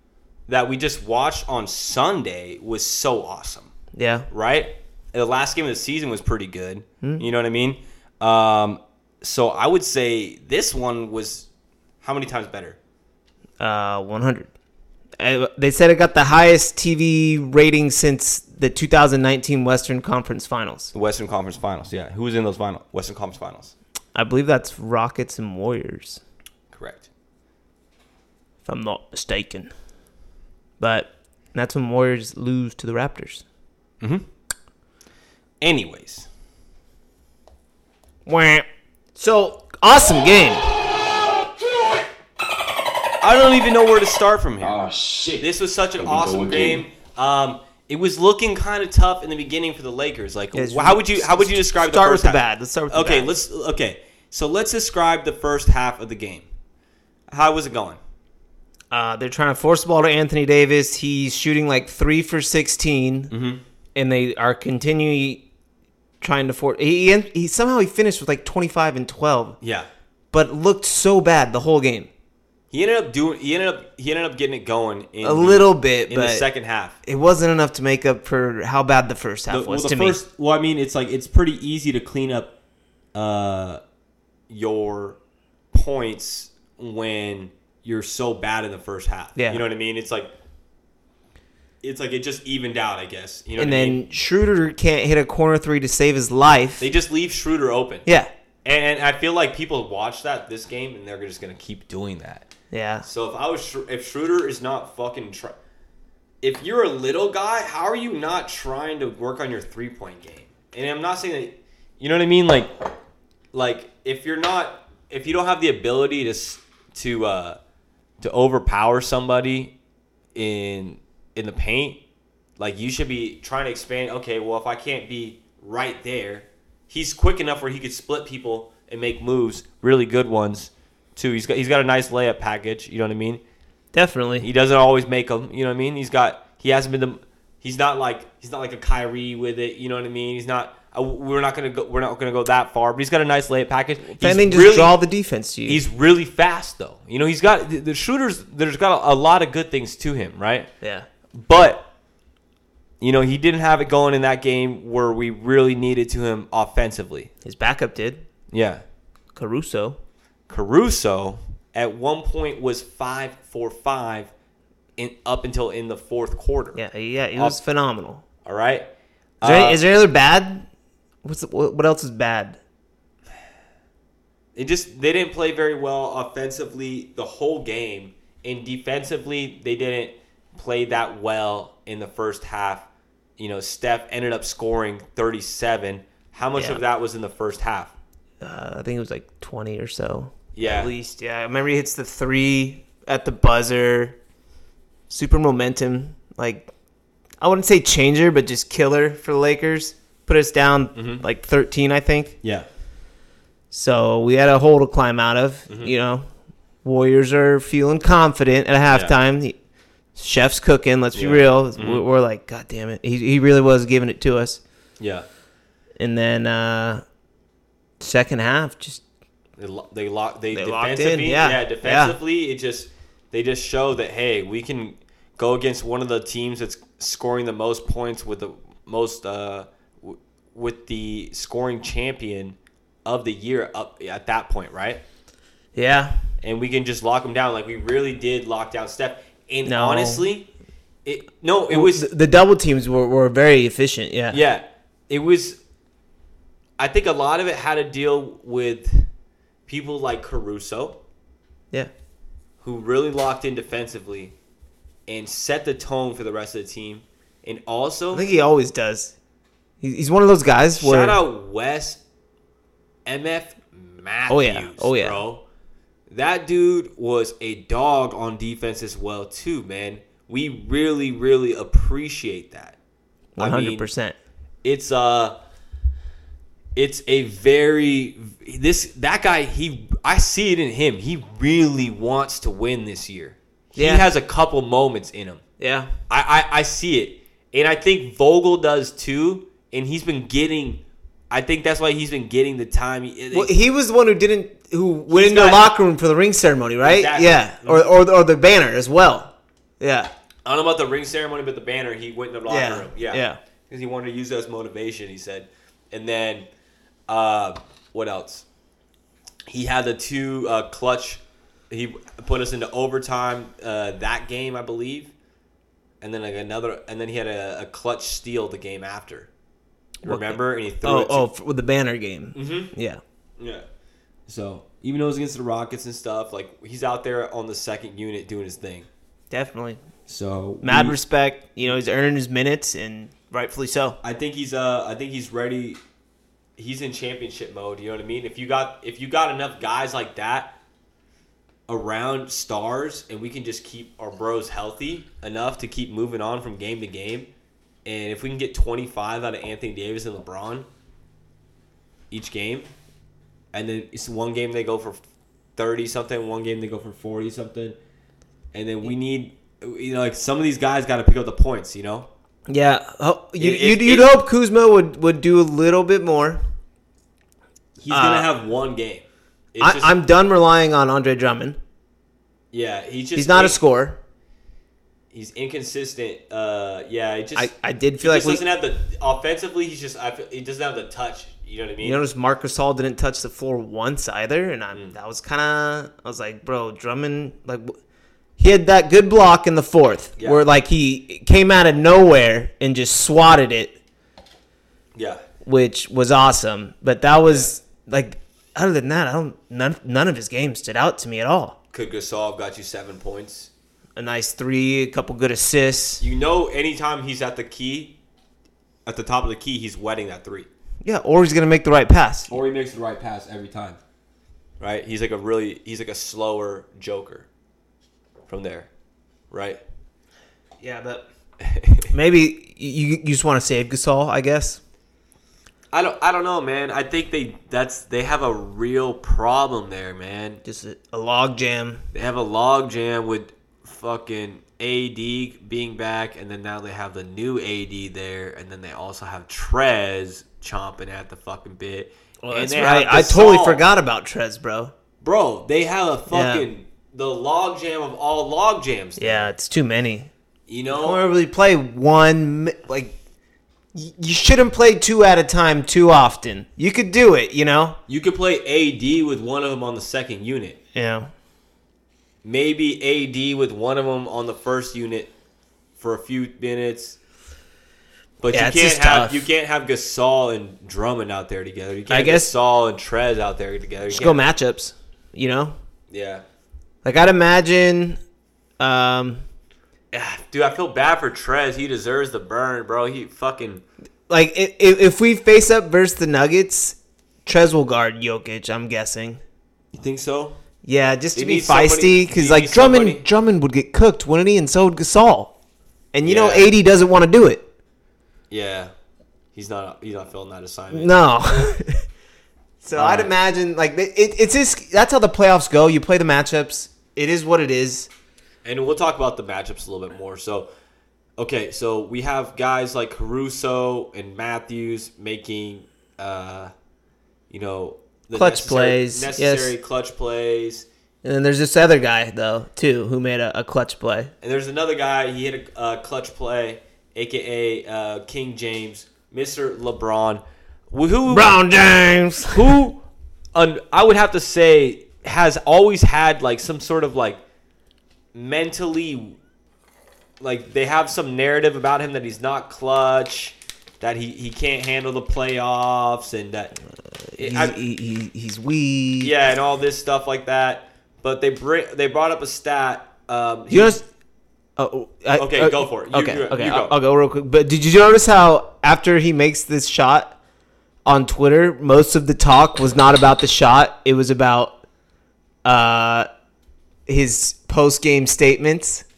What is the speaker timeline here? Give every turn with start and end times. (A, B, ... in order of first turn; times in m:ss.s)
0:00.5-0:03.7 A
0:04.0-0:04.3 B
0:04.3-0:11.5 A
0:12.0-0:12.8 A
0:13.6-0:14.5 B
0:15.2-0:20.9 B
0:20.9-0:23.7 A
0:24.2-0:26.2 B
0:26.7-0:27.0 A
0:28.6-0:29.7 B
0:30.8-0:33.4 B
0:35.6-0:36.3 A
0:38.3-0:40.7 B
0:41.1-0:42.1 C
0:43.2-0:44.8 A
0:44.6-0:45.5 C
0:45.4-0:56.5 A
0:46.0-0:46.8 C
0:50.5-0:53.3 B
0:57.3-0:58.0 A
0:58.9-1:03.3 B
1:03.3-1:03.6 A
1:04.0-1:05.4 B
1:06.2-1:09.6 B
1:09.6-1:09.9 A
1:10.3-1:12.1 B
1:12.7-1:17.0 A
1:15.2-1:16.5 B
1:17.0-1:20.2 B
1:19.5-1:22.5 A
1:23.1-1:23.8 A
1:24.5-1:25.2 A
1:25.7-1:30.3 A
1:29.4-1:29.6 B
1:31.8-1:34.0 A
1:33.6-1:36.9 B
1:36.8-1:38.1 A
1:38.6-1:42.5 A
1:42.7-1:43.0 B
1:43.0-1:45.6 A
1:46.4-1:52.7 A
1:53.5-1:57.6 A
1:58.2-1:59.7 A
2:00.4-2:02.0 A
2:02.6-2:13.4 A
2:13.9-2:14.5 B
2:14.4-2:25.0 A
2:24.1-2:25.8 B
2:25.7-2:30.7 A
2:31.3-2:31.9 A
2:33.0-2:37.3 A
2:37.4-2:38.2 B
2:38.5-2:38.8 A
2:39.3-2:40.0 B
2:40.5-2:44.3 A
2:45.0-2:46.8 A
2:46.8-2:48.2 B
2:48.4-2:48.9 A
2:49.4-2:49.8 A
2:49.4-2:50.7 B
2:51.2-2:52.6 B
2:54.6-3:02.9 A
3:03.4-3:07.9 A
3:06.6-3:06.8 B
3:08.4-3:14.2 B
3:10.6-3:10.9 A
3:15.1-3:16.7 B
3:17.4-3:22.4 B
3:21.0-3:21.2 A
3:23.7-3:26.3 B
3:26.8-3:29.6 B
3:30.2-3:34.6 B
3:31.2-3:32.0 A
3:35.0-3:35.3 A
3:36.0-3:37.0 B
3:38.0-3:39.0 B
3:39.6-3:55.0 A
3:40.5-3:42.2 B
3:55.8-3:56.2 B
3:56.4-4:00.5 A
3:59.7-4:00.3 B
4:01.0-4:02.1 A
4:01.7-4:04.4 B
4:04.3-4:05.6 A
4:06.8-4:09.1 A
4:09.7-4:11.0 A
4:12.6-4:14.4 A
4:15.1-4:18.2 A
4:18.1-4:19.1 B
4:19.8-4:21.2 B
4:20.8-4:22.0 A
4:23.1-4:25.4 A
4:24.3-4:25.2 B
4:26.1-4:32.8 A
4:33.4-4:34.2 B
4:33.4-4:33.9 A
4:34.6-4:35.4 A
4:36.8-4:45.4 A
4:43.8-4:44.0 B
4:45.6-4:45.9 B
4:46.1-4:53.5 A
4:53.3-5:00.1 B
4:55.1-4:55.7 A
4:56.8-4:57.9 A
5:00.4-5:06.5 A
5:02.5-5:03.4 B
5:07.1-5:08.4 A
5:09.5-5:15.1 A
5:16.0-5:19.3 A
5:20.0-5:23.0 B
5:20.0-5:21.3 A
5:22.4-5:22.7 A
5:23.4-5:23.6 A
5:24.3-5:28.9 A
5:29.3-5:29.8 B
5:30.1-5:31.0 A
5:30.6-5:34.0 B
5:34.0-5:35.8 A
5:36.6-5:40.5 A
5:41.7-5:47.3 A
5:47.8-5:50.7 A
5:52.1-5:52.7 A
5:53.5-5:55.0 A
5:55.6-5:57.8 A
5:58.5-6:02.1 A
6:02.5-6:06.4 B
6:03.4-6:04.1 A
6:07.8-6:09.9 A
6:07.9-6:08.3 B
6:09.6-6:11.6 B
6:12.5-6:13.6 A
6:13.2-6:14.0 B
6:15.1-6:22.0 A
6:17.4-6:18.4 B
6:21.8-6:27.8 B
6:28.4-6:33.8 B
6:30.2-6:30.4 A
6:35.0-6:35.2 A
6:35.4-6:41.6 B
6:41.7-6:43.5 A
6:44.0-6:46.0 B
6:46.0-6:48.0 A
6:48.8-6:50.5 A
6:50.8-6:52.4 B
6:52.3-6:53.8 A
6:54.6-6:57.3 A
6:58.3-6:58.7 A
6:59.3-6:59.6 A
7:00.6-7:01.0 B
7:01.4-7:01.9 A
7:01.9-7:04.6 B
7:05.7-7:10.4 A
7:10.4-7:11.8 B
7:11.9-7:23.6 A
7:22.2-7:24.7 B
7:25.0-7:29.3 A
7:26.1-7:26.5 B
7:29.0-7:30.1 B
7:30.5-7:31.0 A
7:30.7-7:33.0 B
7:33.7-7:37.8 B
7:37.9-7:40.6 A
7:40.8-7:41.1 B
7:42.2-7:45.1 A
7:45.8-7:47.0 A
7:48.2-7:54.2 A
7:48.3-7:49.3 B
7:51.9-7:52.3 B
7:53.9-7:55.6 B
7:55.9-7:56.2 A
7:56.8-7:58.0 B
7:58.6-7:59.2 B
7:59.9-8:03.6 A
8:04.1-8:09.2 B
8:09.8-8:10.4 A
8:10.6-8:15.3 B
8:11.2-8:13.0 A
8:15.9-8:17.4 B
8:16.0-8:16.5 A
8:18.3-8:18.7 A
8:19.3-8:21.0 A
8:20.7-8:21.8 B
8:22.6-8:27.9 B
8:22.8-8:23.1 A
8:28.4-8:30.5 A
8:31.2-8:36.5 A
8:37.3-8:40.7 A
8:38.1-8:39.5 B
8:41.0-8:44.1 B
8:44.2-8:51.4 A
8:51.1-8:52.5 B
8:52.3-8:52.8 A
8:53.3-8:57.2 A
8:58.1-8:59.2 A
9:00.2-9:06.6 A
9:07.1-9:09.1 B
9:07.2-9:07.6 A
9:09.0-9:13.8 A
9:13.5-9:13.8 B
9:14.6-9:20.2 B
9:15.2-9:16.8 A
9:20.8-9:24.6 B
9:25.4-9:26.1 B
9:26.9-9:28.8 B